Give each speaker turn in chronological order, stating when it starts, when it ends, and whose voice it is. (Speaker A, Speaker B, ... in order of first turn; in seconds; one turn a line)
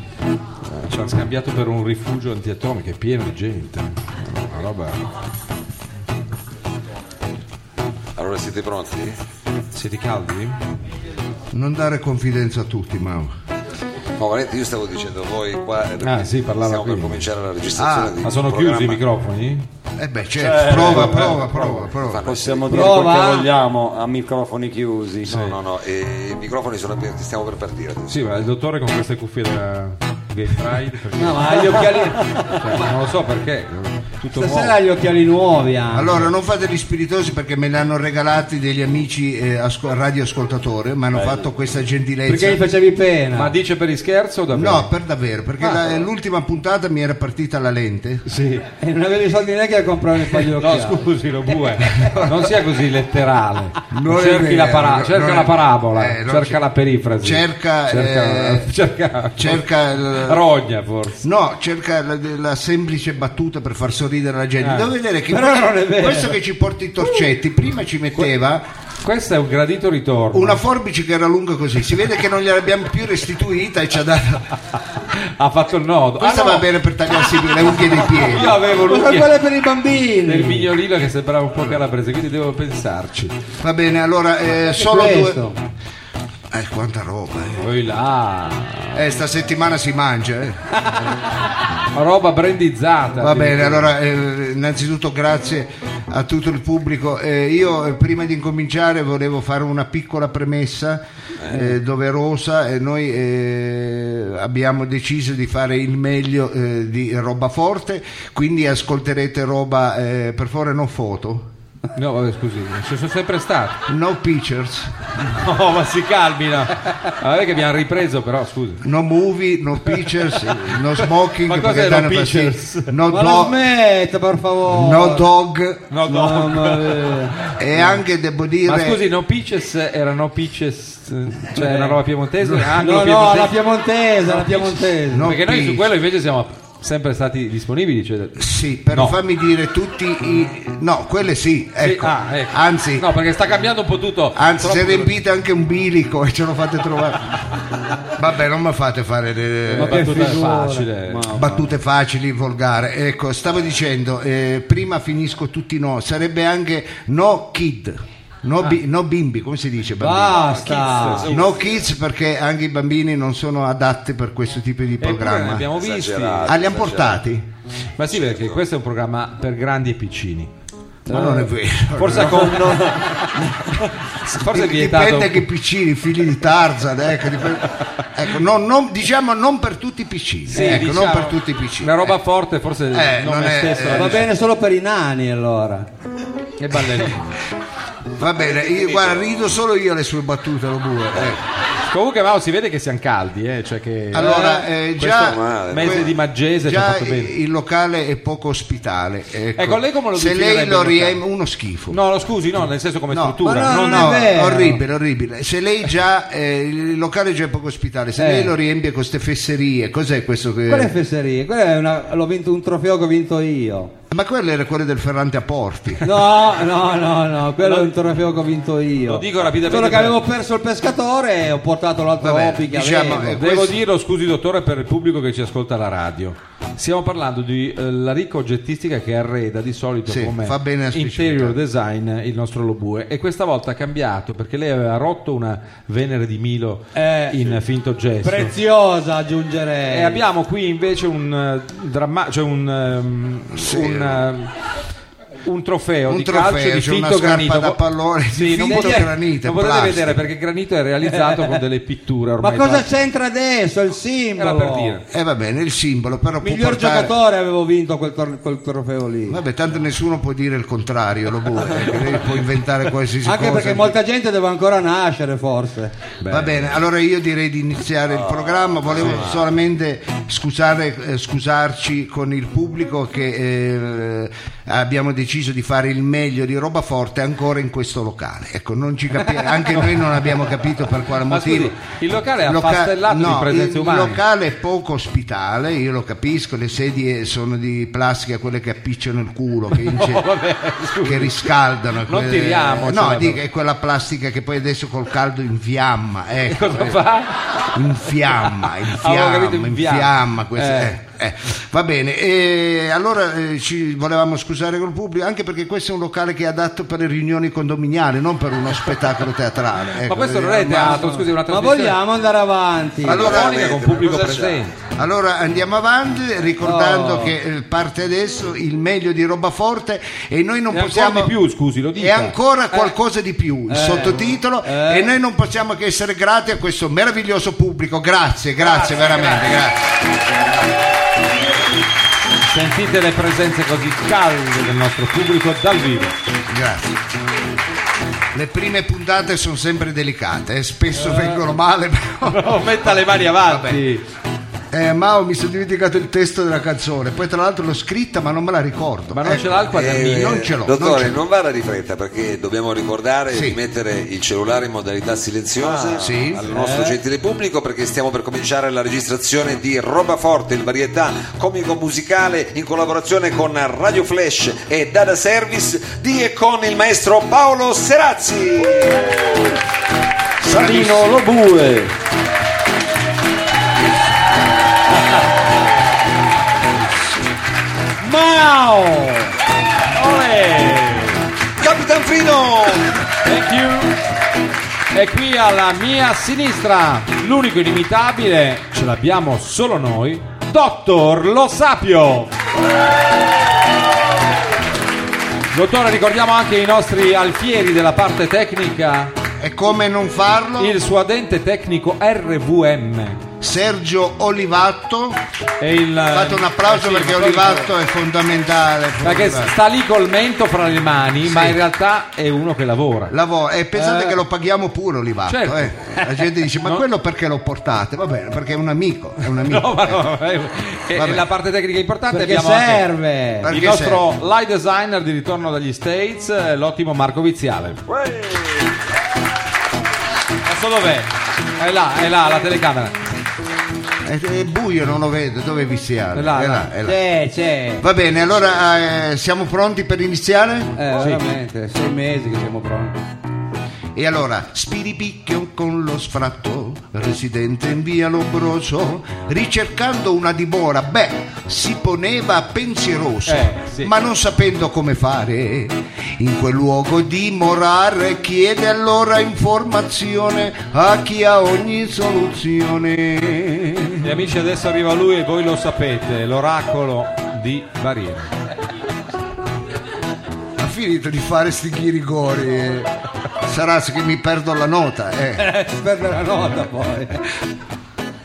Speaker A: 0.6-5.1
Speaker B: 8.2-9.2
Speaker A: 9.7-10.6
Speaker C: 11.5-13.3
Speaker B: 14.2-19.0
Speaker A: 16.0-17.2
Speaker C: 17.8-18.2
Speaker A: 18.2-19.6
Speaker C: 20.0-22.3
Speaker D: 20.4-21.3
Speaker A: 20.7-21.8
Speaker B: 20.7-21.2
Speaker B: 21.9-22.9
Speaker D: 22.2-25.3
Speaker E: 22.7-23.5
Speaker A: 25.3-25.6
Speaker B: 25.3-28.2
Speaker A: 28.1-34.8
Speaker E: 31.1-32.4
Speaker E: 34.4-36.3
Speaker C: 35.9-42.6
Speaker E: 42.3-43.5
Speaker A: 43.4-44.9
Speaker C: 44.5-48.3
Speaker A: 48.3-48.7
Speaker E: 48.8-51.1
Speaker A: 50.3-61.2
Speaker C: 51.9-52.5
Speaker C: 53.9-56.6
Speaker C: 57.2-58.7
Speaker C: 59.4-60.4
Speaker C: 61.2-68.7
Speaker A: 64.6-64.9
Speaker E: 65.3-66.4
Speaker A: 69.0-70.6
Speaker C: 70.3-74.5
Speaker A: 75.1-79.3
Speaker C: 76.2-78.6
Speaker E: 78.6-80.7
Speaker A: 80.2-83.3
Speaker C: 83.6-85.4
Speaker E: 84.8-85.5
Speaker C: 86.5-87.7
Speaker A: 87.6-89.0
Speaker C: 89.0-90.6
Speaker A: 91.9-93.9
Speaker C: 93.2-111.5
Speaker A: 112.0-113.8
Speaker C: 113.9-114.9
Speaker A: 115.2-118.8
Speaker C: 118.8-123.6
Speaker A: 120.0-122.9
Speaker E: 123.1-125.2
Speaker C: 124.7-125.9
Speaker A: 125.9-127.9
Speaker E: 126.1-127.4
Speaker C: 127.6-129.0
Speaker A: 128.7-133.6
Speaker E: 131.6-132.0
Speaker C: 132.4-132.8
Speaker E: 132.8-135.3
Speaker A: 134.3-139.2
Speaker C: 135.1-135.9
Speaker C: 138.4-143.1
Speaker A: 141.8-145.2
Speaker C: 144.3-147.3
Speaker C: 148.2-150.3
Speaker A: 149.7-151.3
Speaker E: 149.7-151.7
Speaker C: 151.3-160.5
Speaker E: 160.0-161.3
Speaker A: 160.3-161.6
Speaker B: 160.7-161.9
Speaker C: 161.2-165.7
Speaker A: 165.0-166.5
Speaker B: 165.8-167.2
Speaker C: 166.4-167.5
Speaker A: 168.0-170.5
Speaker B: 168.1-168.6
Speaker C: 171.1-173.0
Speaker E: 171.1-171.5
Speaker A: 171.2-171.4
Speaker A: 171.9-173.3
Speaker E: 172.2-172.8
Speaker A: 174.1-175.4
Speaker C: 174.3-182.2
Speaker A: 180.5-184.3
Speaker E: 180.6-180.9
Speaker C: 182.9-184.3
Speaker E: 183.9-185.9
Speaker A: 186.6-187.3
Speaker C: 188.2-191.4
Speaker B: 188.4-189.2
Speaker A: 191.9-197.3
Speaker C: 194.1-196.1
Speaker B: 195.1-196.1
Speaker C: 196.7-202.0
Speaker A: 199.6-201.2
Speaker A: 201.9-204.2
Speaker C: 203.1-210.9
Speaker E: 203.4-204.8
Speaker E: 208.2-208.5
Speaker E: 210.7-213.9
Speaker C: 214.1-216.1
Speaker E: 216.0-223.4
Speaker A: 217.6-217.9
Speaker A: 219.1-220.2
Speaker C: 222.2-223.8
Speaker A: 223.4-238.5
Speaker C: 230.1-231.6
Speaker E: 236.9-237.6
Speaker E: 238.2-240.2
Speaker A: 239.9-244.5
Speaker C: 243.5-244.3
Speaker A: 245.4-252.9
Speaker C: 246.1-250.2
Speaker E: 248.7-249.1
Speaker E: 251.1-251.5
Speaker E: 252.4-255.0
Speaker A: 254.4-255.0
Speaker C: 255.1-257.2
Speaker E: 256.4-259.4
Speaker C: 259.3-264.0
Speaker E: 263.2-265.9
Speaker A: 266.2-266.6
Speaker C: 266.3-281.8
Speaker B: 268.3-269.4
Speaker A: 281.3-284.2
Speaker C: 282.4-290.3
Speaker A: 289.7-291.5
Speaker C: 291.0-297.0
Speaker A: 292.0-293.4
Speaker A: 296.5-297.5
Speaker C: 297.6-311.1
Speaker A: 298.7-301.0
Speaker A: 310.0-312.0
Speaker E: 310.8-313.3
Speaker B: 313.1-314.6
Speaker C: 313.1-313.6
Speaker A: 313.1-314.7
Speaker C: 314.9-321.4
Speaker E: 316.6-317.3
Speaker A: 320.7-322.4
Speaker C: 321.9-329.9
Speaker E: 323.7-325.1
Speaker A: 328.6-329.6
Speaker A: 332.5-336.1
Speaker C: 336.5-337.0
Speaker C: 338.3-343.8
Speaker A: 342.3-344.0
Speaker C: 344.7-351.2
Speaker A: 349.1-350.4
Speaker B: 349.7-369.5
Speaker C: 353.3-353.6
Speaker D: 355.6-356.0
Speaker C: 356.0-356.4
Speaker E: 356.5-357.0
Speaker D: 370.4-371.9
Speaker A: 370.6-371.1
Speaker B: 370.6-371.0
Speaker E: 378.0-379.3
Speaker A: 380.0-381.2
Speaker B: 381.6-383.1
Speaker A: 383.2-384.0
Speaker A: 384.9-392.3
Speaker A: 395.5-399.1
Speaker C: 399.4-400.8
Speaker A: 400.6-403.2
Speaker C: 403.4-405.2
Speaker A: 405.6-407.7
Speaker C: 406.1-409.5
Speaker A: 409.0-413.1
Speaker C: 411.2-411.6
Speaker C: 413.1-420.0
Speaker E: 413.8-414.2
Speaker A: 415.3-416.1
Speaker A: 419.2-422.9
Speaker C: 420.9-421.2
Speaker E: 422.1-423.5
Speaker C: 423.4-424.0
Speaker A: 423.5-427.8
Speaker B: 428.1-428.3
Speaker A: 430.5-432.9
Speaker C: 434.1-437.0
Speaker A: 436.1-436.7
Speaker E: 436.8-437.9
Speaker C: 437.8-441.1
Speaker E: 440.8-443.0
Speaker A: 441.0-441.2
Speaker C: 443.9-464.2
Speaker A: 453.3-453.9
Speaker A: 464.0-468.3
Speaker C: 470.6-472.9
Speaker C: 473.4-475.5
Speaker E: 475.4-477.2